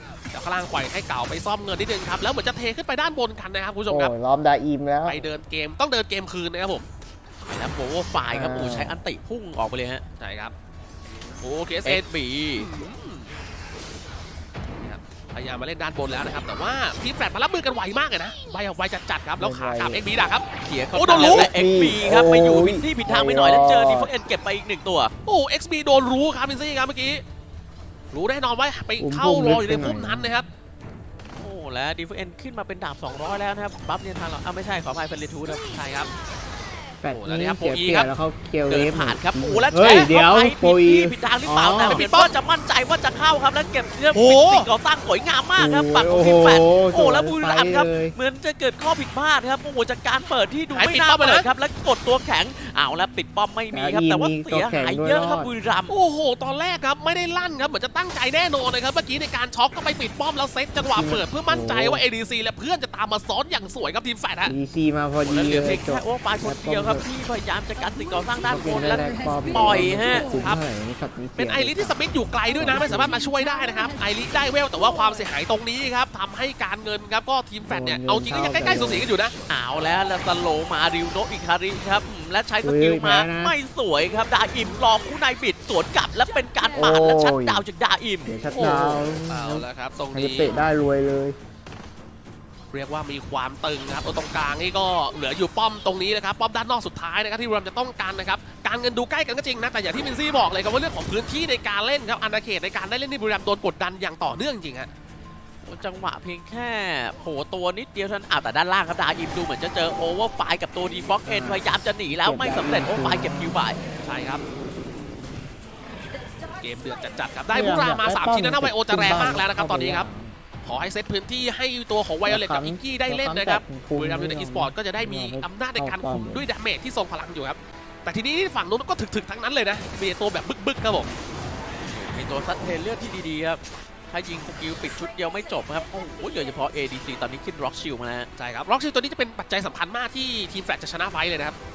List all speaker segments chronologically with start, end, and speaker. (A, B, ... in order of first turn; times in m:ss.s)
0:00.3-0:04.1 A
0:03.9-0:05.3 B
0:05.0-0:06.8 A
0:07.4-0:10.0 C
0:08.3-0:09.0 B
0:10.2-0:10.5 A
0:11.4-0:12.0 A
0:11.8-0:12.7 C
0:12.6-0:13.3 A
0:14.8-0:21.5 A
0:19.4-0:20.0 B
0:20.6-0:25.1 C
0:21.1-0:24.1 B
0:25.2-0:27.2 A
0:28.1-0:30.5 A
0:29.0-0:30.4 B
0:31.4-0:35.6 C
0:35.7-0:36.1 A
0:37.0-0:42.0 B
0:37.1-0:38.1 A
0:38.7-0:55.9 C
0:41.8-0:42.3 A
0:44.1-0:44.7 A
0:45.6-0:48.2 B
0:50.7-0:51.5 A
0:53.7-0:55.5 B
0:55.9-1:04.5 A
1:00.9-1:02.0 B
1:04.4-1:07.1 B
1:05.2-1:10.3 C
1:08.5-1:12.0 B
1:10.0-1:10.6 A
1:11.4-1:19.3 A
1:12.5-1:13.2 B
1:17.7-1:19.1 B
1:19.5-1:28.3 C
1:22.6-1:23.6 B
1:26.7-1:27.6 B
1:28.2-1:31.4 B
1:28.5-1:30.5 A
1:32.7-1:44.9 A
1:45.6-1:53.8 C
1:51.2-1:53.6 B
1:54.0-1:54.4 A
1:56.6-2:00.1 A
1:57.5-2:00.4 B
2:00.6-2:11.1 A
2:02.2-2:06.5 B
2:11.8-2:18.3 C
2:18.4-2:21.6 A